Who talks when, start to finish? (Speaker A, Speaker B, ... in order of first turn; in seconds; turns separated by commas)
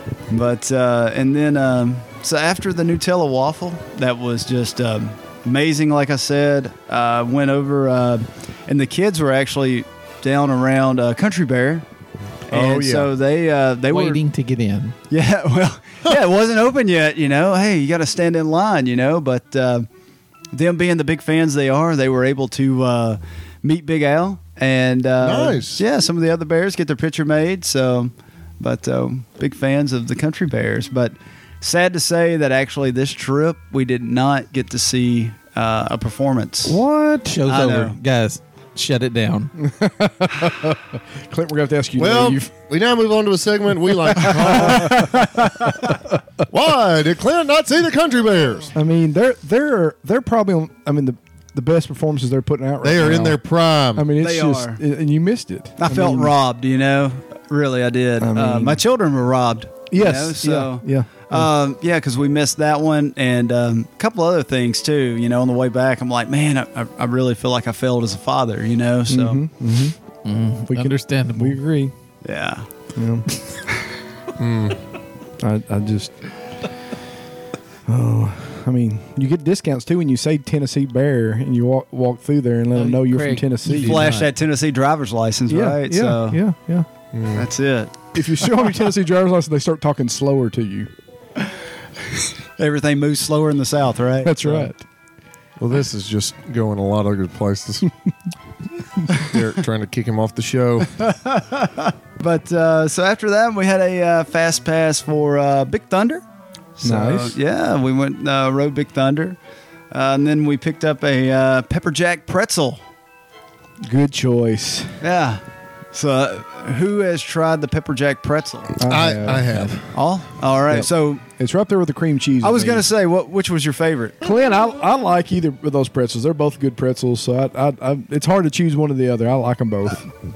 Speaker A: 0.3-11.8, Speaker B: 12.5-13.1, Speaker A: 12.5-14.2, Speaker C: 13.9-14.9, Speaker A: 15.1-19.9, Speaker A: 20.5-36.8, Speaker B: 25.2-25.8, Speaker C: 36.7-39.5, Speaker A: 37.5-38.0, Speaker D: 39.6-42.5, Speaker B: 42.0-45.5, Speaker D: 44.1-46.2, Speaker A: 45.4-45.9, Speaker B: 46.5-48.7, Speaker D: 48.7-53.4, Speaker B: 52.8-54.1, Speaker D: 53.9-56.3, Speaker A: 54.2-54.8, Speaker A: 55.8-69.4, Speaker D: 58.2-58.8, Speaker D: 59.9-61.5, Speaker D: 69.1-70.0, Speaker C: 70.2-71.6, Speaker D: 70.7-71.9, Speaker A: 72.2-72.7, Speaker D: 72.9-73.3, Speaker B: 74.4-74.8, Speaker D: 75.4-76.2, Speaker D: 77.8-84.1, Speaker C: 82.7-84.3, Speaker A: 83.7-86.4, Speaker D: 85.5-86.9, Speaker B: 87.1-87.5, Speaker A: 87.3-88.1, Speaker D: 88.1-90.9, Speaker A: 92.6-94.7, Speaker D: 94.2-94.8, Speaker B: 95.6-97.9, Speaker B: 99.1-101.0, Speaker A: 101.0-106.2, Speaker A: 106.8-109.4, Speaker D: 106.8-107.4, Speaker A: 109.9-112.8, Speaker D: 113.8-115.0, Speaker A: 115.0-115.4, Speaker A: 115.9-118.8, Speaker D: 118.8-119.8, Speaker B: 118.8-119.9, Speaker A: 119.9-121.2, Speaker D: 120.7-122.9, Speaker A: 122.4-124.2, Speaker D: 124.2-130.1